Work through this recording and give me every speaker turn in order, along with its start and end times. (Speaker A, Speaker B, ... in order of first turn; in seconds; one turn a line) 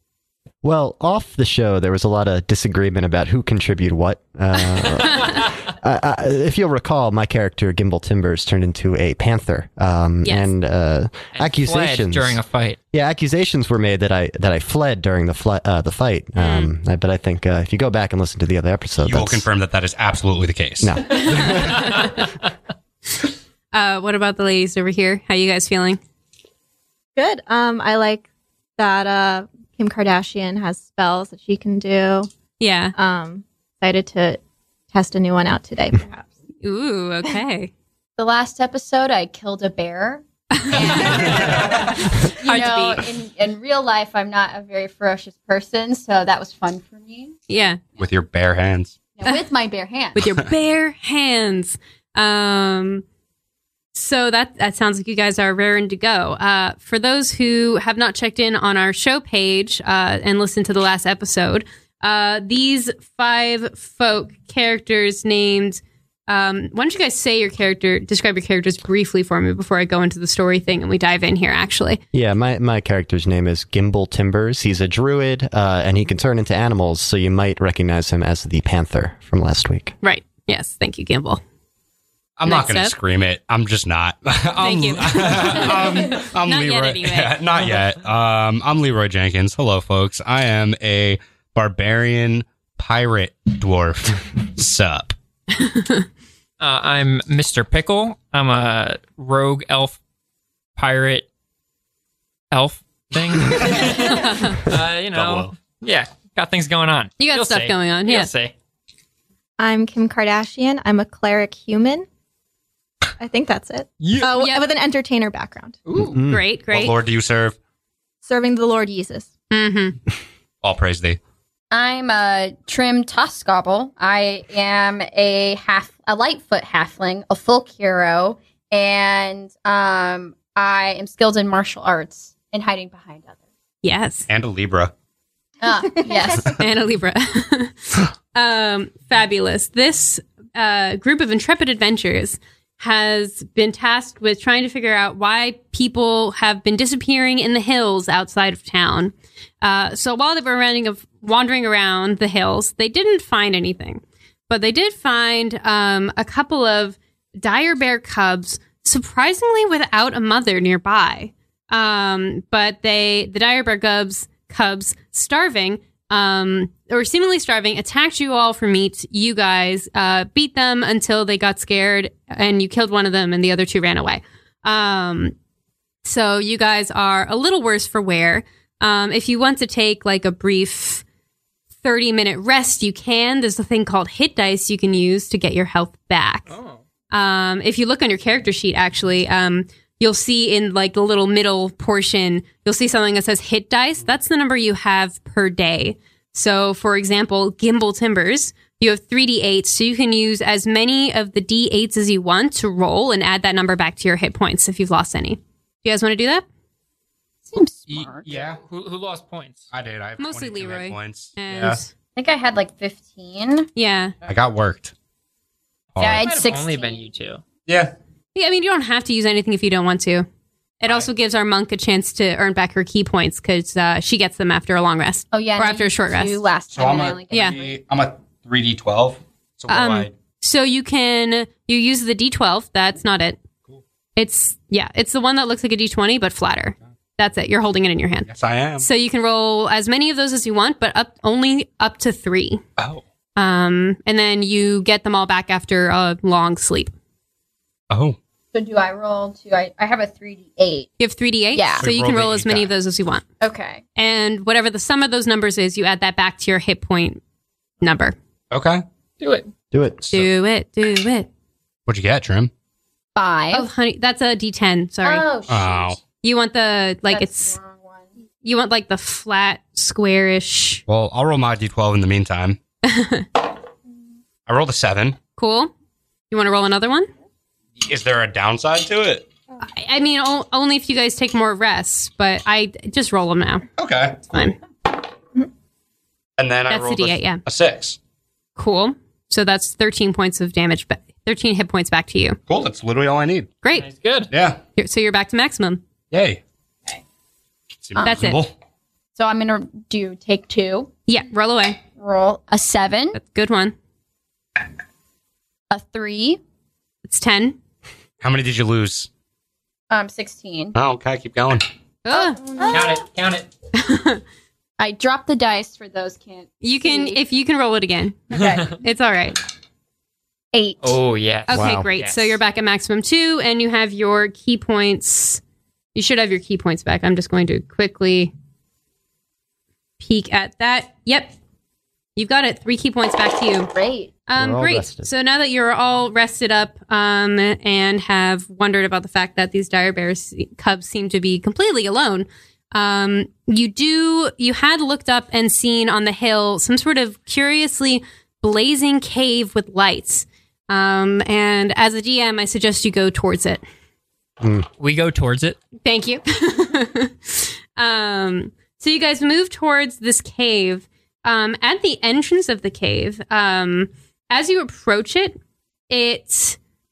Speaker A: 0.6-12.4
Speaker B: 4.6-5.4
Speaker B: 10.2-10.5
Speaker C: 11.3-12.8
Speaker A: 12.9-19.5
Speaker B: 16.4-16.7
Speaker D: 19.0-21.0
Speaker A: 20.8-21.9
Speaker B: 21.1-22.2
Speaker B: 23.7-26.0
Speaker E: 27.1-28.2
Speaker E: 28.8-32.3
Speaker B: 32.6-32.9
Speaker E: 32.9-34.4
Speaker E: 34.9-36.3
Speaker B: 36.6-37.7
Speaker F: 38.2-47.4
Speaker B: 40.5-43.0
Speaker B: 47.5-47.8
Speaker D: 48.0-49.0
Speaker F: 49.1-50.2
Speaker B: 50.1-53.0
Speaker B: 53.9-72.0
Speaker A: 72.1-79.9
Speaker B: 80.0-81.4
Speaker D: 82.4-95.1
Speaker B: 82.5-82.9
Speaker B: 84.6-87.6
Speaker B: 95.6-96.0
Speaker C: 96.6-100.0
Speaker C: 100.8-101.2
Speaker C: 102.5-108.5
Speaker D: 103.3-104.0
Speaker B: 103.9-104.6
Speaker D: 104.6-105.5
Speaker B: 107.2-108.3
Speaker E: 109.6-112.0
Speaker E: 113.2-115.8
Speaker C: 114.0-114.3
Speaker B: 114.2-114.7
Speaker A: 116.0-116.4
Speaker B: 116.0-117.0
Speaker D: 116.7-117.6
Speaker E: 118.2-119.3
Speaker B: 119.5-120.0
Speaker D: 120.6-121.2
Speaker F: 121.7-133.3
Speaker B: 133.8-134.3
Speaker D: 134.3-134.9
Speaker F: 135.6-136.5
Speaker E: 135.9-136.4
Speaker B: 136.4-175.3
Speaker B: 176.0-181.0
Speaker B: 181.8-186.5
Speaker C: 186.5-186.8
Speaker B: 187.1-206.4
Speaker F: 207.5-208.4
Speaker D: 207.9-208.6
Speaker C: 208.3-209.7
Speaker D: 209.7-211.8
Speaker B: 210.2-211.9
Speaker F: 212.2-213.7
Speaker B: 213.8-214.1
Speaker D: 214.2-214.9
Speaker D: 215.9-216.3
Speaker F: 216.0-217.1
Speaker C: 216.0-217.4
Speaker D: 217.7-217.9
Speaker B: 218.3-220.3
Speaker B: 220.8-226.4
Speaker F: 225.3-227.8
Speaker D: 226.7-230.1
Speaker B: 227.3-227.6
Speaker B: 229.7-233.4
Speaker B: 234.2-242.6
Speaker D: 238.3-238.9
Speaker D: 242.8-243.0
Speaker B: 243.3-246.9
Speaker D: 247.9-248.2
Speaker F: 248.5-250.9
Speaker B: 251.0-253.2
Speaker F: 251.5-251.8
Speaker D: 251.8-252.7
Speaker F: 253.4-253.8
Speaker B: 254.0-257.2
Speaker B: 257.8-258.1
Speaker D: 258.5-258.8
Speaker C: 259.2-259.5
Speaker A: 259.7-260.1
Speaker B: 260.1-261.3
Speaker D: 261.9-262.5
Speaker F: 263.1-263.7
Speaker B: 263.5-265.2
Speaker F: 265.0-265.9
Speaker D: 265.5-266.0
Speaker B: 266.2-267.6
Speaker F: 267.1-268.0
Speaker B: 268.4-270.8
Speaker D: 270.9-272.6
Speaker B: 272.8-273.2
Speaker D: 274.5-275.2
Speaker B: 275.4-275.7
Speaker B: 276.3-277.1
Speaker D: 277.8-279.3
Speaker B: 279.6-283.6
Speaker D: 283.8-284.4
Speaker B: 284.3-284.6
Speaker D: 286.4-288.0
Speaker B: 286.7-287.4
Speaker B: 288.6-292.4
Speaker D: 292.5-293.5
Speaker B: 293.6-293.9
Speaker C: 293.7-294.3
Speaker D: 294.3-294.6
Speaker B: 294.8-295.8
Speaker D: 296.1-296.4
Speaker D: 297.8-298.5
Speaker F: 298.0-298.3
Speaker B: 298.0-298.4
Speaker F: 299.2-300.9
Speaker B: 301.1-301.8
Speaker F: 302.0-303.2
Speaker B: 303.1-303.7
Speaker F: 305.7-306.4
Speaker B: 307.1-307.6
Speaker D: 308.2-309.1
Speaker F: 309.9-310.8
Speaker D: 310.7-311.6
Speaker B: 312.0-312.4
Speaker F: 312.1-313.0
Speaker C: 312.7-313.5
Speaker B: 313.7-314.2
Speaker F: 314.8-317.2
Speaker B: 316.6-319.4
Speaker F: 318.3-318.8
Speaker F: 320.5-320.9
Speaker C: 320.8-322.4
Speaker B: 321.5-325.4
Speaker A: 321.5-321.9
Speaker B: 325.9-328.3
Speaker B: 330.0-331.3
Speaker B: 332.1-333.7
Speaker F: 333.7-334.1
Speaker B: 334.3-353.6
Speaker A: 334.3-335.1
Speaker A: 354.4-354.7
Speaker C: 354.8-355.6
Speaker B: 355.8-365.4
Speaker B: 365.9-366.6